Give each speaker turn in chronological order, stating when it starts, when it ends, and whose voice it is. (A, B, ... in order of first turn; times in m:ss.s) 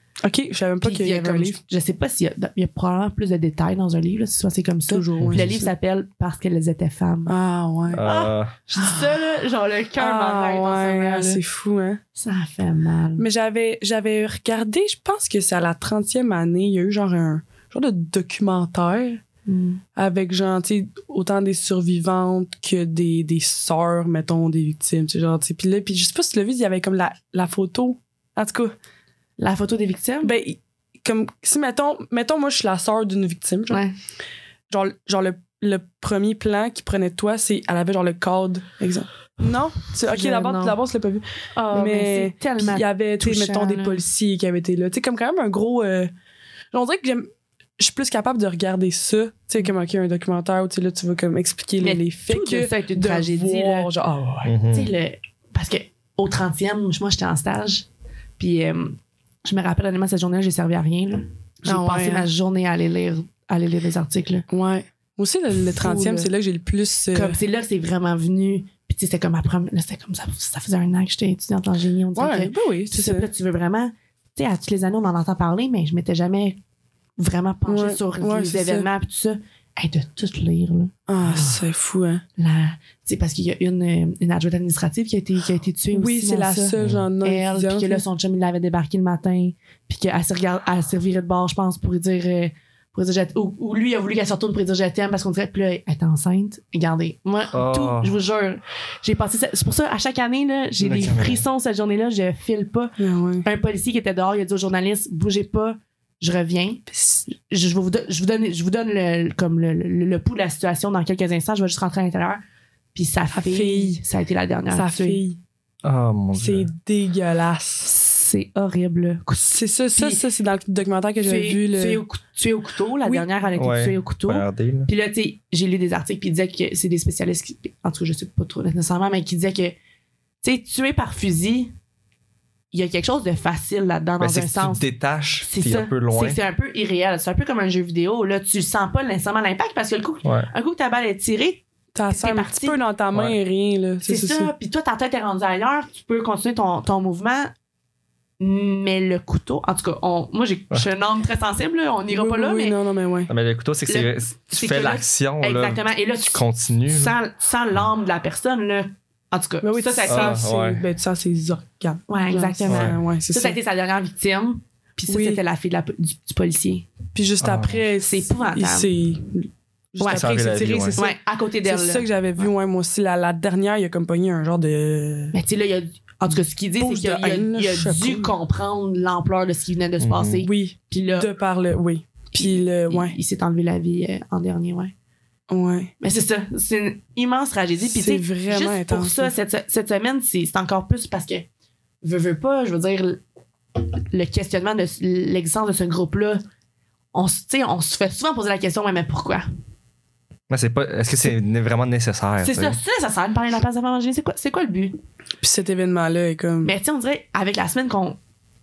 0:00.2-0:01.6 A
0:00.8-0:07.3 B
0:04.9-0:05.7 A
0:05.2-0:05.5 C
0:07.3-0:08.0 A
0:07.9-0:08.6 C
0:08.0-0:11.4 B
0:10.0-0:12.0 A
0:12.2-0:13.2 B
0:13.2-0:19.2 A
0:19.5-0:19.8 B
0:20.0-0:28.7 A
0:29.4-0:30.3 B
0:30.2-0:33.8 A
0:34.7-0:46.1 A
0:40.1-0:40.8 B
0:41.6-0:44.0 B
0:46.7-0:54.5 A
0:51.8-0:53.9 B
0:54.4-0:54.9 C
0:54.7-0:57.9 B
0:58.4-1:04.4 B
1:01.6-1:02.3 A
1:04.5-1:07.4 A
1:05.6-1:06.3 B
1:07.1-1:16.6 B
1:12.2-1:13.3 A
1:17.2-1:21.5 B
1:17.7-1:18.9 A
1:21.1-1:22.2 A
1:22.4-1:52.4 B
1:25.9-1:28.0 A
1:26.8-1:27.1 C
1:37.5-1:38.1 C
1:40.8-1:41.4 C
1:43.0-1:43.5 A
1:46.9-1:47.2 A
1:53.0-1:55.2 B
1:53.3-1:54.0 A
1:54.7-1:55.4 A
1:55.8-1:56.7 C
1:56.4-1:57.9 A
1:57.8-2:00.2 B
1:59.4-2:02.0 A
2:01.2-2:09.8 B
2:03.6-2:04.9 C
2:10.4-2:11.7 B
2:12.7-2:14.8 B
2:14.2-2:16.4 C
2:15.4-2:22.8 B
2:21.9-2:24.5 A
2:24.0-2:27.5 B
2:28.4-2:32.8 B
2:32.1-2:33.3 A
2:33.3-2:37.2 C
2:33.9-2:40.4 B
2:39.6-2:43.6 A
2:40.1-2:40.8 C
2:42.1-2:46.9 B
2:42.7-2:43.0 C
2:45.1-2:45.4 A
2:47.2-2:55.4 A
2:47.4-2:47.8 C
2:48.0-2:48.9 B
2:50.0-2:50.3 B
2:50.1-2:51.0 C
2:51.0-2:52.1 B
2:55.3-3:01.3 B
2:56.8-2:58.3 A
3:00.0-3:00.5 C
3:00.4-3:03.2 A
3:02.4-3:04.9 B
3:05.5-3:05.9 A
3:06.0-3:11.5 B
3:07.8-3:09.3 A
3:12.0-3:13.2 B
3:13.8-3:16.4 B
3:17.1-3:19.4 B
3:20.5-3:22.8 C
3:22.4-3:25.0 B
3:25.4-3:26.7 A
3:26.6-3:28.2 B